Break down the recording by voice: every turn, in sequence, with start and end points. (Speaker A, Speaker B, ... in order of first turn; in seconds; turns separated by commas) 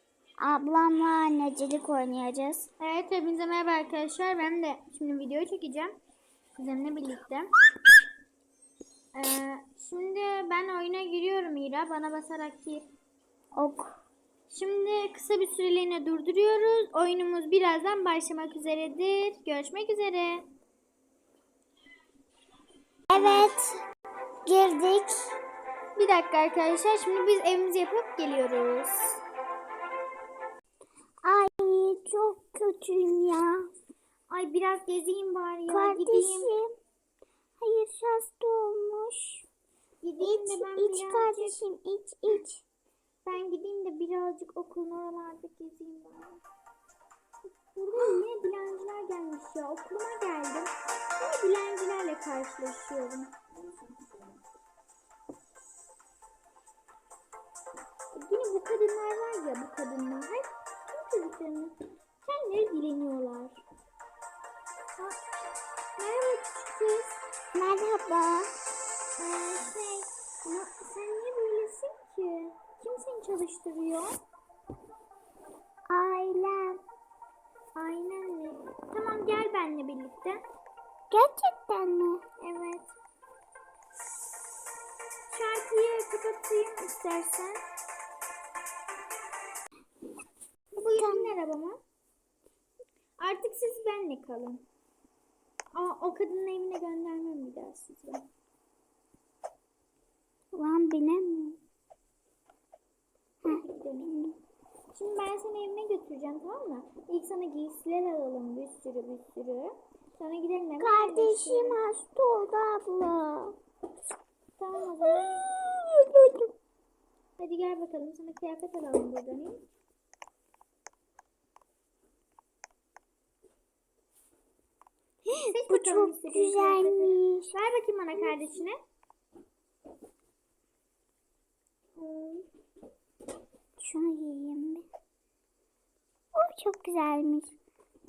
Speaker A: 0.4-2.7, Speaker B: 2.8-6.0, Speaker B: 6.6-7.5, Speaker B: 9.2-12.9, Speaker A: 13.6-14.0, Speaker B: 14.5-20.4, Speaker A: 23.1-23.8, Speaker B: 23.1-23.5, Speaker A: 24.5-25.3, Speaker B: 26.0-29.2, Speaker A: 31.2-33.7, Speaker B: 34.3-36.5, Speaker A: 35.7-36.7, Speaker A: 37.6-39.5, Speaker B: 40.0-41.6, Speaker A: 40.2-42.6, Speaker B: 43.2-46.4, Speaker B: 47.4-54.1, Speaker B: 58.1-63.6, Speaker B: 66.0-67.2, Speaker A: 67.5-68.5, Speaker B: 69.2-74.2, Speaker A: 75.9-76.8, Speaker B: 77.8-80.4, Speaker A: 81.1-82.2, Speaker B: 82.4-82.9, Speaker B: 85.3-87.6, Speaker B: 90.8-91.8, Speaker A: 91.0-91.3, Speaker B: 93.2-94.7, Speaker B: 95.8-98.3, Speaker A: 100.5-101.6, Speaker A: 103.4-104.4, Speaker B: 103.5-104.1, Speaker B: 104.9-111.8, Speaker A: 110.8-113.6, Speaker B: 114.6-115.5, Speaker A: 115.0-116.5, Speaker B: 117.4-119.6, Speaker A: 125.3-127.6, Speaker B: 125.5-128.8, Speaker A: 128.2-128.5, Speaker B: 132.0-132.5, Speaker A: 133.8-134.9, Speaker A: 136.3-137.6